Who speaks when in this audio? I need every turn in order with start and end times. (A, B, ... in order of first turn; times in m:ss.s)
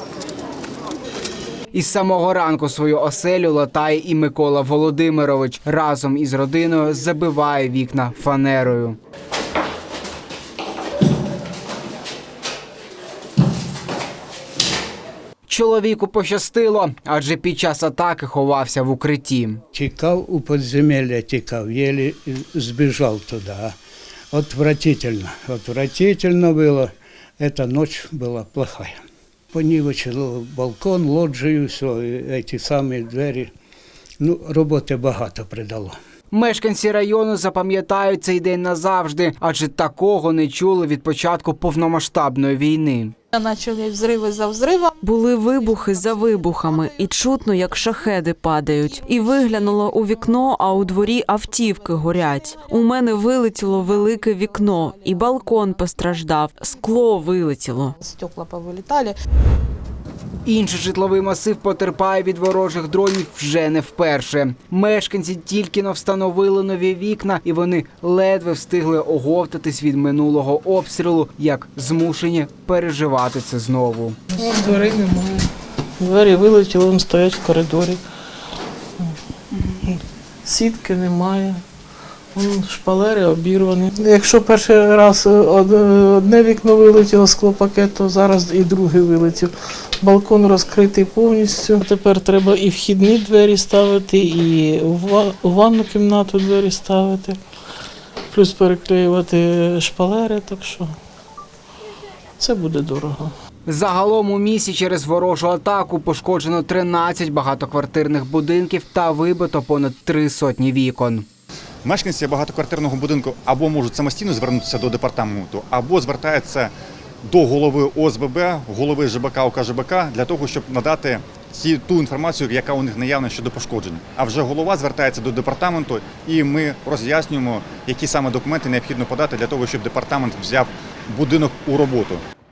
0:01.7-0:09.0 A
0:15.5-0:19.6 A
0:19.7-0:23.8 B
0:24.3-0:29.0 B
0:29.5-0:33.5 B
0:34.2-0:36.0 B
0:36.3-0:43.1 A
0:43.3-0:44.9 C
0:45.0-0:58.0 D
0:58.0-0:59.2 C
1:00.4-1:14.2 A
1:14.4-1:15.5 E
1:16.0-1:18.0 E
1:20.4-1:21.6 E
1:22.4-1:37.4 E
1:38.3-1:40.9 E
1:42.4-1:43.3 E
1:43.7-1:51.3 A
1:51.8-1:56.7 F
1:57.2-2:12.2 F